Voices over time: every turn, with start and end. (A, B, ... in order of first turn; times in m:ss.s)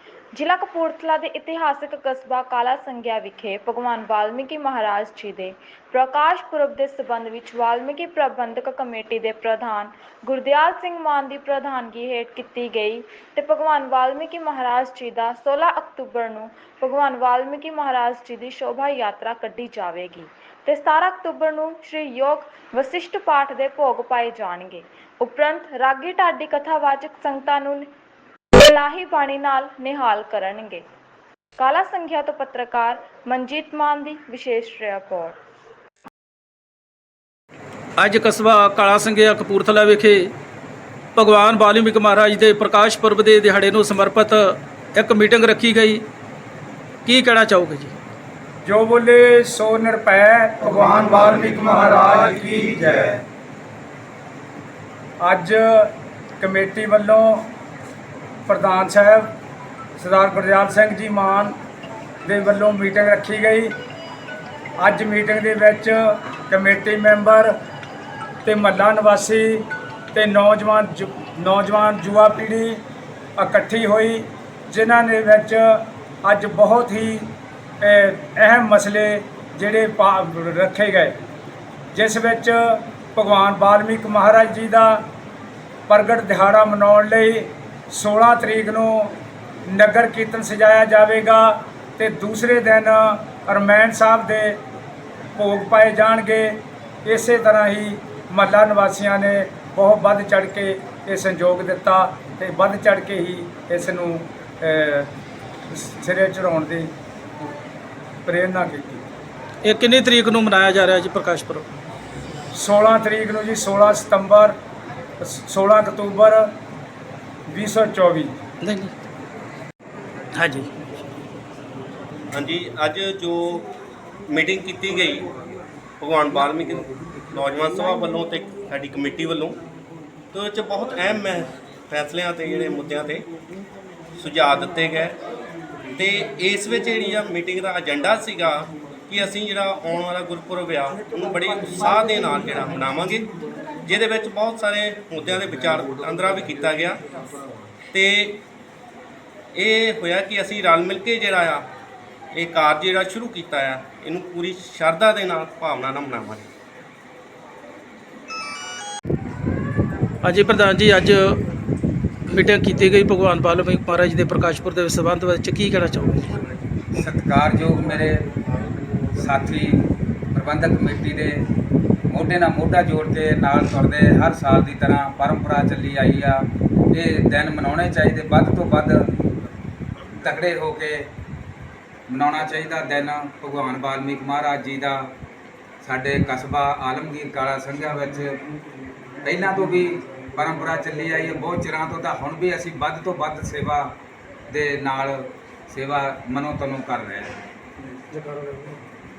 0:00.3-0:27.9 A
0:28.6-0:30.8 A
0:31.6-0:35.4 A
0:38.0-0:40.3 B
0:41.2-0:46.1 B
0:47.0-0:48.0 B
0:48.6-0:53.2 C
0:55.2-0:57.5 C
0:58.5-0:59.4 C
1:00.0-1:01.6 C
1:02.2-1:03.7 C
1:04.8-1:07.5 C
1:08.4-1:12.8 C
1:13.4-1:21.2 C
1:21.9-1:25.0 C
1:25.9-1:34.6 C
1:35.4-1:45.1 C
1:45.7-1:46.9 C
1:48.3-1:49.0 C
1:49.6-1:51.7 B
1:52.5-1:54.6 C
1:55.2-1:56.5 C
1:57.5-1:58.4 C
1:58.6-1:58.9 B
2:00.4-2:00.7 B
2:02.3-2:03.7 D
2:04.3-2:05.3 D
2:06.0-2:09.6 D
2:10.3-2:13.3 D
2:14.2-2:15.2 D
2:16.0-2:23.3 D
2:23.8-2:27.0 D
2:27.9-2:28.4 D
2:29.5-2:31.7 D
2:32.3-2:36.5 D
2:40.2-2:41.4 B
2:42.3-2:46.4 B
2:46.9-2:48.3 E
2:49.2-2:51.5 E
2:52.1-2:59.1 E
3:00.2-3:01.0 E
3:02.1-3:05.0 E
3:05.8-3:08.4 E
3:09.2-3:13.9 E
3:14.5-3:17.4 E